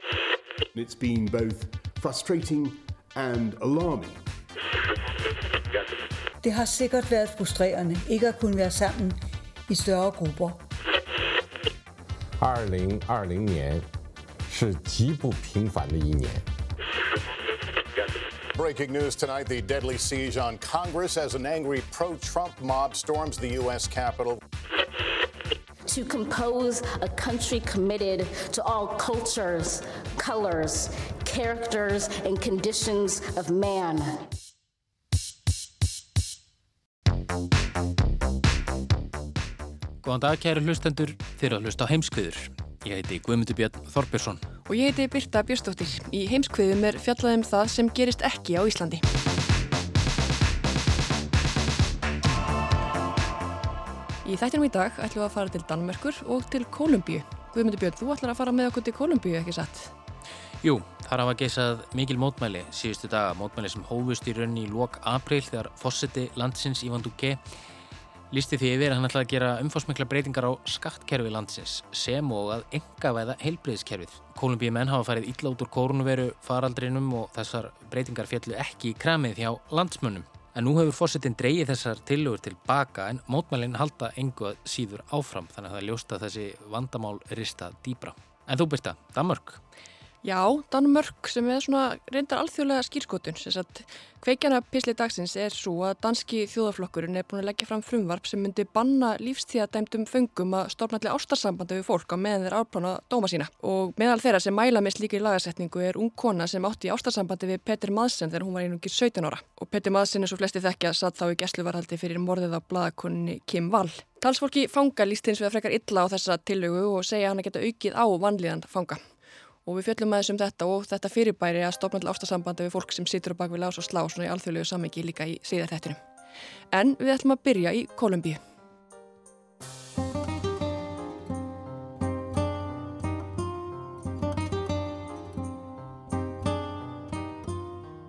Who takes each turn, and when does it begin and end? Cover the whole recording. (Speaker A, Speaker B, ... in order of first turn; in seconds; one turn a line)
Speaker A: 0.7-4.2
Speaker B: 6.4-10.6
Speaker C: 12.4-13.9
Speaker C: 14.5-16.4
Speaker D: 18.6-24.4
Speaker E: 25.9-34.2
Speaker F: 40.0-44.4
Speaker G: 44.7-49.0
Speaker G: 54.2-59.9
Speaker F: 60.6-67.4
Speaker F: 68.3-89.6
Speaker G: 90.2-119.0
Speaker G: 119.6-126.0
Speaker G: 126.7-128.4